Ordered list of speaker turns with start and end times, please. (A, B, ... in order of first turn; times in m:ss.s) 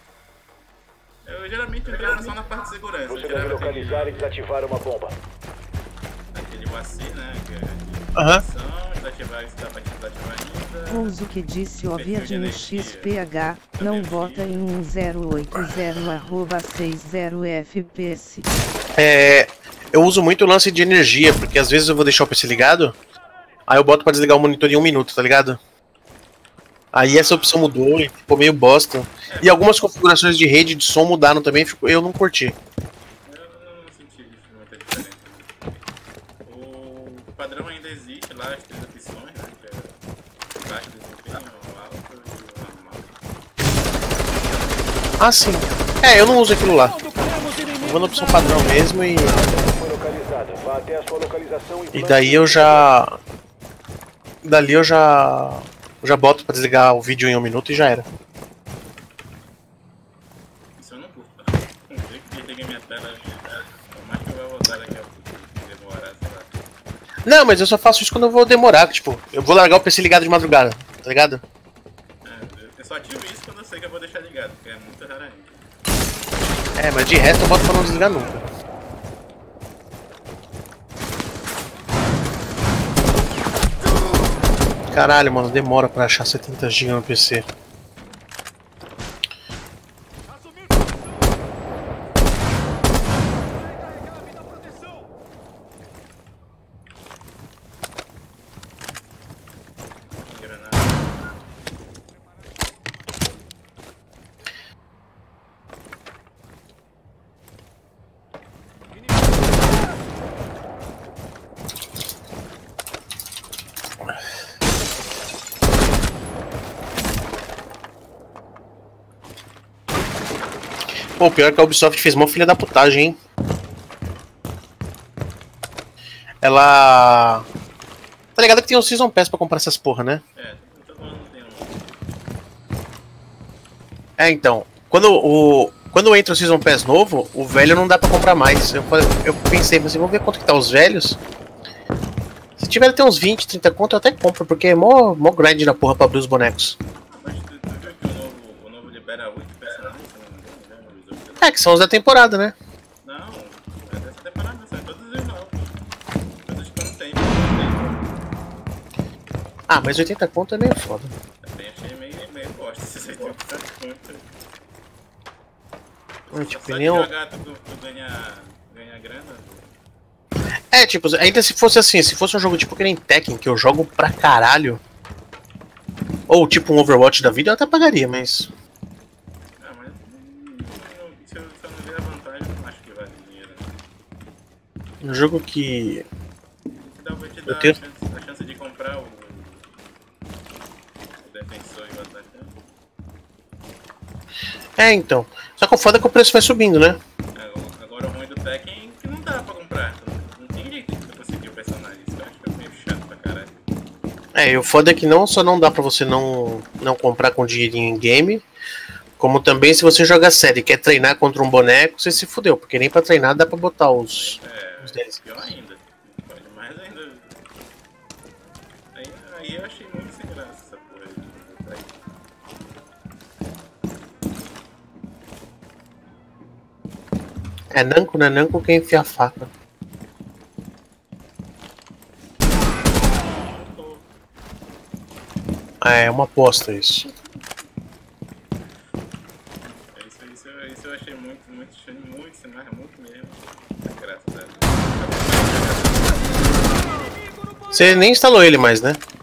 0:01.2-0:04.3 A
0:03.1-0:05.2 B
0:06.3-0:11.2 A
0:08.2-0:08.4 C
0:10.9-0:18.5 D
0:12.0-0:13.2 A
0:13.8-0:14.6 A
0:19.0-0:23.0 C
0:23.7-0:25.6 C
0:26.9-0:32.6 C
0:27.0-0:27.8 A
0:29.3-0:29.8 A
0:33.3-0:35.8 A
0:36.4-0:40.0 A
0:40.6-0:43.1 A
0:45.2-0:47.0 C
0:47.8-0:49.4 C
0:49.4-0:52.9 B
0:51.9-0:53.2 C
0:54.4-0:58.0 C
1:00.8-1:06.6 A
1:07.3-1:11.4 C
1:12.2-1:15.6 A
1:16.8-1:18.4 C
1:24.9-1:27.4 C
1:40.2-1:41.3 A
2:01.2-2:03.2 C
2:06.4-2:07.5 C
2:08.4-2:10.2 C
2:10.4-2:11.9 A
2:14.2-2:21.2 C
2:22.6-2:26.8 C
2:27.1-2:31.6 A
2:31.4-2:32.6 C
2:33.0-2:35.8 A
2:36.4-2:38.1 A
2:39.7-2:41.1 C
2:41.4-2:44.2 A
2:46.2-2:49.7 A
2:46.3-2:47.1 C
2:50.7-2:54.8 C
2:56.3-2:58.5 C
2:59.6-3:03.7 A
3:05.0-3:06.0 C
3:06.9-3:09.6 A
3:07.5-3:07.7 C
3:11.2-3:12.5 A
3:14.8-3:17.0 C
3:17.4-3:23.5 A
3:24.4-3:28.4 C
3:29.2-3:35.2 C
3:34.1-3:37.4 A
3:38.9-3:42.0 A
3:47.7-3:49.5 C
3:53.3-3:54.1 A
3:55.8-3:57.1 C
3:59.7-4:07.1 A
4:07.7-4:09.0 C